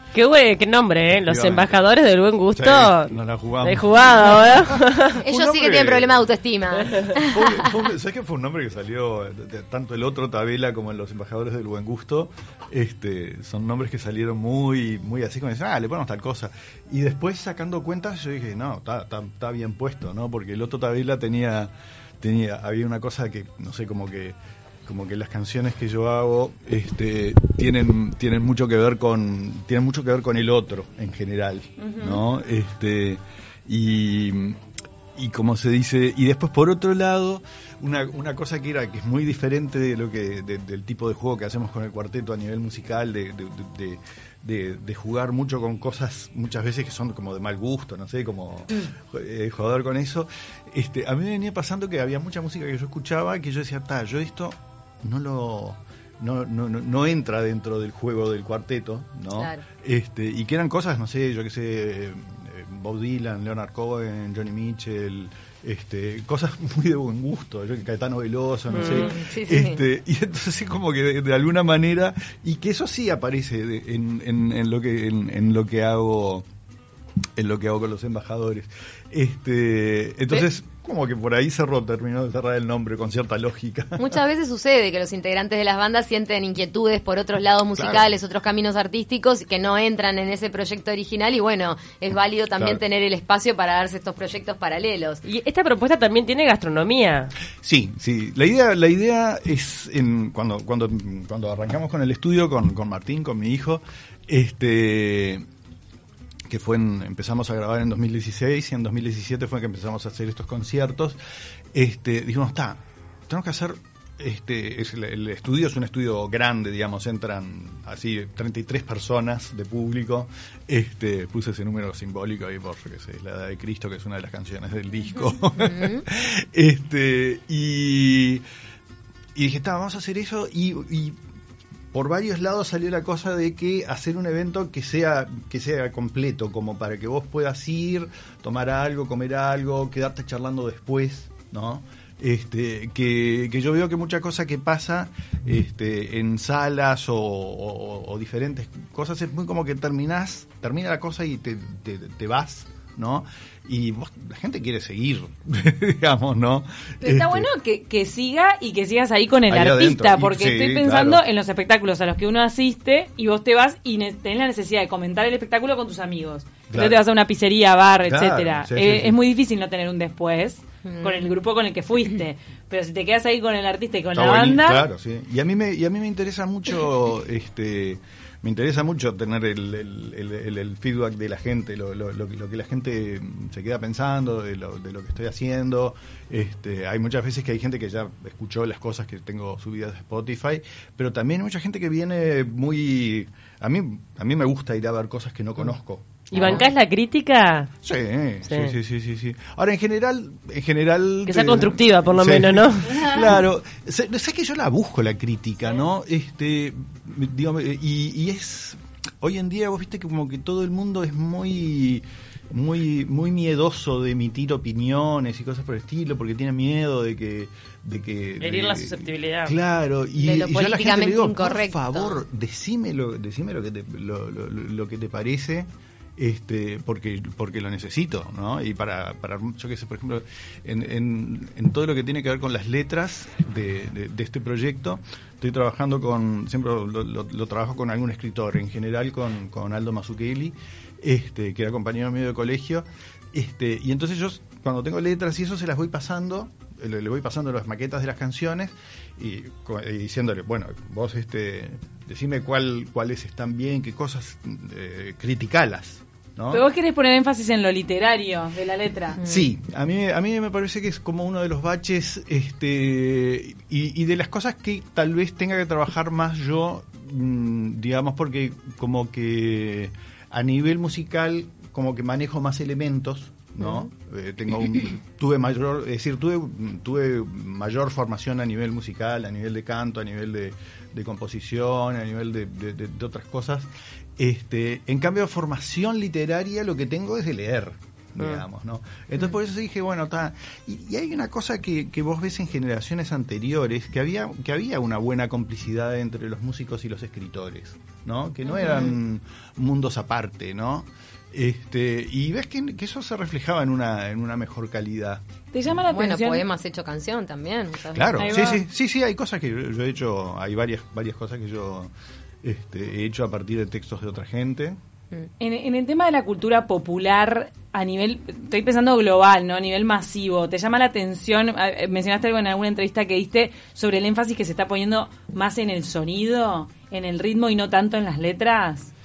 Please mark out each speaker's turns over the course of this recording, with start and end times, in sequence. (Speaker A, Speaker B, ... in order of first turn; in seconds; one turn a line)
Speaker A: 0.1-5.2
Speaker B: 1.1-1.8
Speaker B: 2.5-6.3
Speaker C: 5.2-7.8
Speaker A: 6.7-7.2
Speaker B: 7.1-34.6
Speaker D: 31.8-32.2
Speaker B: 35.1-76.5
Speaker C: 59.3-59.6
Speaker C: 68.7-69.8
Speaker A: 68.7-69.1
Speaker B: 77.3-84.2
Speaker C: 84.0-95.2
Speaker B: 87.7-88.0
Speaker B: 92.5-92.8
Speaker A: 95.2-97.3
Speaker B: 97.6-105.4
Speaker B: 106.5-111.2
Speaker B: 111.7-128.4
Speaker C: 125.6-126.0
Speaker B: 129.3-131.2
Speaker B: 131.9-157.5
Speaker D: 157.0-174.8
Speaker B: 159.5-161.2
Speaker B: 166.7-167.0
Speaker B: 168.0-169.1
Speaker C: 170.8-171.2
Speaker B: 174.1-196.7
Speaker A: 196.3-197.7
Speaker C: 196.3-196.7
Speaker B: 197.8-256.6
Speaker A: 198.5-198.7
Speaker A: 201.2-203.2
Speaker A: 218.4-219.6
Speaker C: 220.2-222.2
Speaker D: 256.5-259.2
Speaker C: 259.1-259.5
Speaker B: 259.2-305.2
Speaker C: 273.6-273.9
Speaker C: 298.4-298.9
Speaker D: 305.5-306.4
Speaker C: 305.9-308.6
Speaker B: 307.9-311.9
Speaker D: 308.2-308.6
Speaker B: 312.4-314.8
Speaker D: 315.4-328.9